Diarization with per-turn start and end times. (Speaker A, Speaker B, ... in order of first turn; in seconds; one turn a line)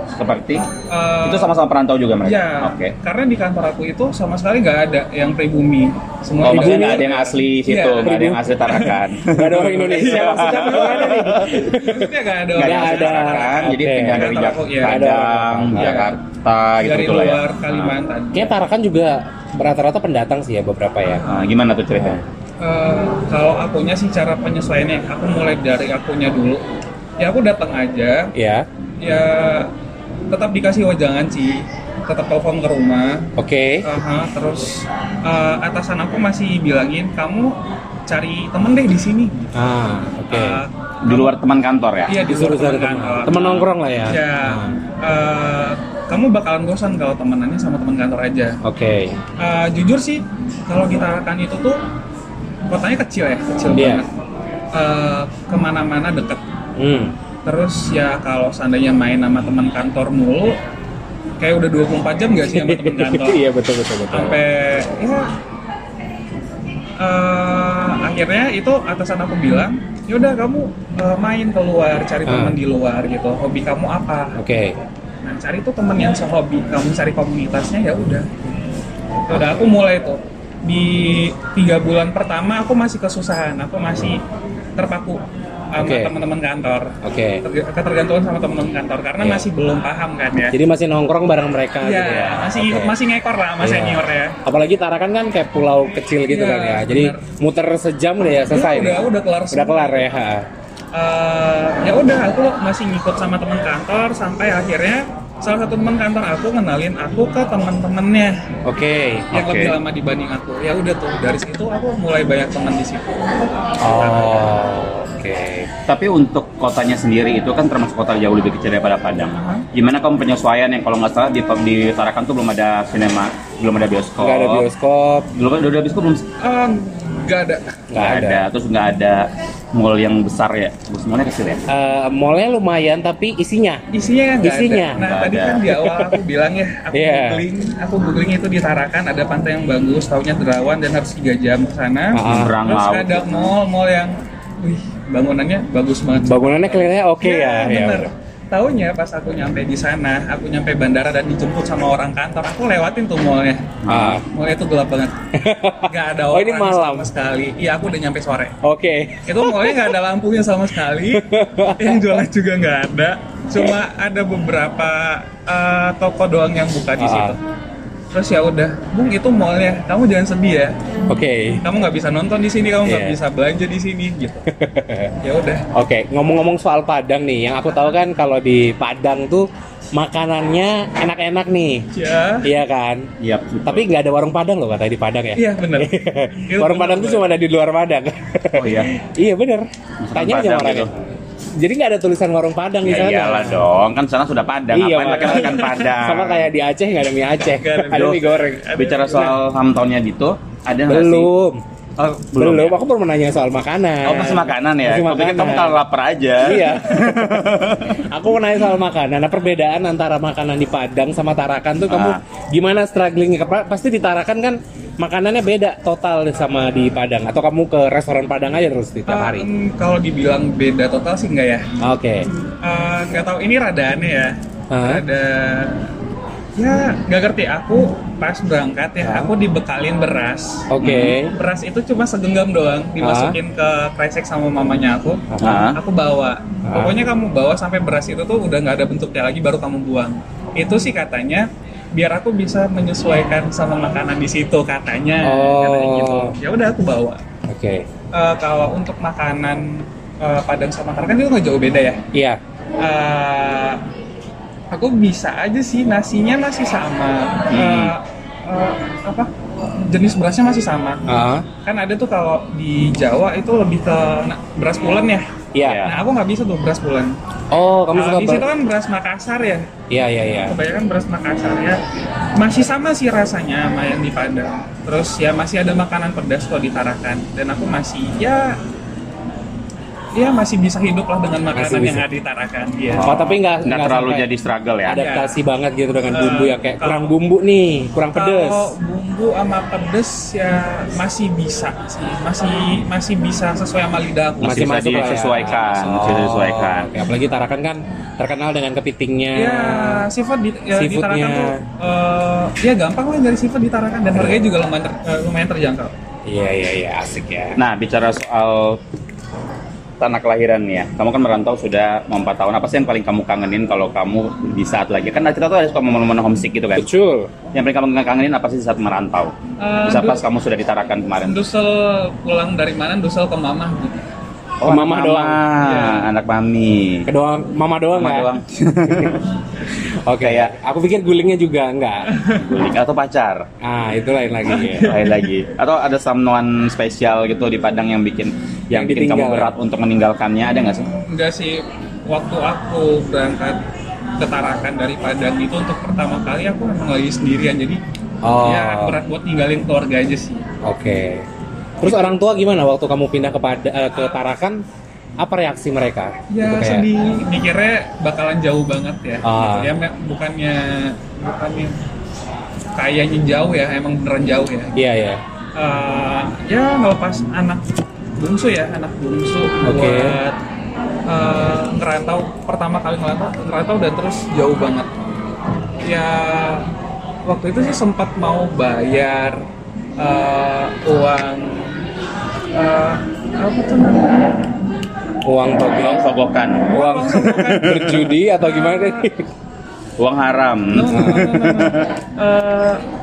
Speaker A: 0.1-0.7
Speaker B: 0.9-1.5
Speaker A: 1.2-3.0
Speaker B: 2.2-8.2
Speaker A: 6.4-11.6
Speaker C: 6.5-7.1
Speaker C: 8.0-8.4
Speaker C: 9.3-16.0
Speaker B: 9.9-15.0
Speaker A: 12.6-17.9
Speaker B: 15.8-16.1
Speaker B: 16.8-18.5
Speaker C: 18.3-21.2
Speaker B: 21.1-21.5
Speaker A: 21.3-22.2
Speaker C: 21.9-22.2
Speaker B: 22.6-26.6
Speaker B: 27.2-28.3
Speaker C: 28.4-28.7
Speaker B: 29.0-29.7
Speaker B: 30.3-39.5
Speaker C: 33.4-33.9
Speaker C: 39.5-40.6
Speaker B: 40.3-41.4
Speaker A: 41.0-42.2
Speaker B: 42.1-48.6
Speaker C: 42.2-44.8
Speaker C: 48.6-49.2
Speaker B: 49.4-51.8
Speaker B: 52.7-54.1
Speaker C: 53.7-54.0
Speaker B: 54.7-56.4
Speaker C: 56.8-57.1
Speaker B: 57.5-60.6
Speaker B: 61.4-63.4
Speaker C: 62.5-64.4
Speaker B: 64.1-65.3
Speaker B: 67.0-74.4
Speaker C: 72.3-72.6
Speaker C: 74.3-74.8
Speaker B: 75.2-78.3
Speaker B: 79.3-84.2
Speaker B: 84.8-85.2
Speaker B: 85.7-90.6
Speaker C: 85.8-86.1
Speaker C: 87.0-87.4
Speaker C: 89.2-89.5
Speaker C: 90.5-92.9
Speaker B: 91.8-94.4
Speaker C: 93.6-100.5
Speaker B: 96.3-97.2
Speaker B: 98.5-100.1
Speaker B: 100.9-108.4
Speaker C: 108.7-109.3
Speaker A: 109.3-109.8
Speaker B: 109.3-114.5
Speaker C: 113.8-115.7
Speaker A: 115.9-124.7
Speaker B: 119.3-119.7
Speaker C: 124.2-125.3
Speaker A: 125.3-126.2
Speaker B: 126.4-127.8
Speaker C: 127.9-128.5
Speaker A: 128.0-131.6
Speaker C: 131.7-133.8
Speaker B: 133.9-155.2
Speaker C: 134.4-135.0
Speaker A: 135.0-135.7
Speaker C: 135.7-136.2
Speaker C: 136.9-137.5
Speaker C: 142.1-142.6
Speaker A: 142.2-143.6
Speaker C: 146.2-148.1
Speaker A: 153.8-154.2
Speaker C: 153.9-154.2
Speaker C: 155.3-157.1
Speaker B: 155.9-158.6
Speaker C: 158.6-159.9
Speaker B: 159.3-167.4
Speaker C: 161.1-162.2
Speaker C: 167.0-167.4
Speaker B: 168.1-170.8
Speaker C: 171.1-171.7
Speaker B: 171.6-174.4
Speaker C: 172.9-173.2
Speaker C: 174.5-175.2
Speaker B: 175.2-175.7
Speaker C: 175.7-181.9
Speaker B: 181.9-182.5
Speaker C: 182.4-183.1
Speaker A: 183.2-183.9
Speaker C: 183.7-191.0
Speaker B: 185.4-185.9
Speaker B: 186.5-187.3
Speaker A: 188.5-188.9
Speaker A: 190.0-190.9
Speaker C: 191.6-193.7
Speaker A: 192.8-196.5
Speaker C: 194.7-198.7
Speaker B: 195.1-195.6
Speaker B: 197.5-199.3
Speaker A: 197.9-198.2
Speaker A: 198.8-201.3
Speaker C: 200.9-201.6
Speaker A: 202.0-202.8
Speaker C: 202.3-205.8
Speaker A: 204.0-208.1
Speaker C: 206.4-219.5
Speaker A: 211.9-212.2
Speaker B: 219.1-221.7
Speaker C: 221.8-222.3
Speaker B: 222.6-225.9
Speaker C: 224.7-225.0
Speaker B: 226.6-247.2
Speaker C: 229.0-229.3
Speaker C: 230.7-231.3
Speaker A: 230.8-231.1
Speaker C: 233.0-233.4
Speaker C: 235.3-235.7
Speaker A: 235.4-235.8
Speaker C: 236.7-236.9
Speaker C: 245.2-246.3
Speaker C: 247.5-247.9
Speaker B: 248.1-252.0
Speaker C: 252.1-252.4
Speaker B: 252.8-253.8
Speaker B: 254.7-259.3
Speaker A: 257.5-257.9
Speaker B: 259.9-261.0
Speaker C: 261.1-261.5
Speaker B: 261.6-265.3
Speaker C: 265.6-265.9
Speaker A: 265.6-266.0
Speaker B: 265.8-267.2
Speaker C: 267.5-268.5
Speaker B: 267.9-269.7
Speaker C: 269.9-270.6
Speaker B: 270.5-271.8
Speaker B: 272.4-278.6
Speaker B: 280.1-283.1
Speaker C: 281.5-282.1
Speaker A: 282.9-285.0
Speaker C: 283.0-284.3
Speaker C: 284.9-288.8
Speaker B: 284.9-285.4
Speaker B: 286.1-287.1
Speaker B: 288.1-295.7
Speaker A: 294.4-296.9
Speaker C: 294.4-300.1
Speaker B: 299.4-305.9
Speaker C: 300.8-301.6
Speaker C: 304.1-304.4
Speaker C: 306.3-307.6
Speaker A: 307.6-308.8
Speaker A: 310.0-316.9
Speaker C: 316.8-317.3
Speaker A: 317.5-321.4
Speaker B: 319.6-320.2
Speaker B: 321.2-324.1
Speaker A: 324.6-327.1
Speaker C: 324.6-325.4
Speaker B: 325.6-326.1
Speaker C: 327.1-328.3
Speaker A: 327.9-329.2
Speaker C: 328.8-329.2
Speaker C: 330.1-332.2
Speaker A: 330.2-330.6
Speaker B: 332.1-332.4
Speaker A: 332.3-333.5
Speaker C: 333.6-334.9
Speaker B: 334.5-335.3
Speaker A: 334.8-340.9
Speaker C: 338.7-339.5
Speaker B: 341.0-343.6
Speaker B: 344.2-347.8
Speaker C: 348.2-349.0
Speaker B: 348.4-350.5
Speaker C: 350.6-351.3
Speaker C: 351.8-354.6
Speaker C: 355.2-356.9
Speaker B: 356.3-361.8
Speaker C: 359.2-359.7
Speaker B: 362.8-364.7
Speaker C: 364.8-365.2
Speaker B: 365.6-370.4
Speaker C: 369.6-370.2
Speaker B: 371.1-374.9
Speaker B: 375.8-376.7
Speaker B: 377.3-379.4
Speaker B: 380.0-381.9
Speaker B: 382.5-384.4
Speaker C: 385.2-386.1
Speaker A: 385.7-386.9
Speaker B: 386.7-389.1
Speaker C: 386.8-389.3
Speaker A: 390.0-392.0
Speaker B: 390.7-392.8
Speaker C: 390.9-391.3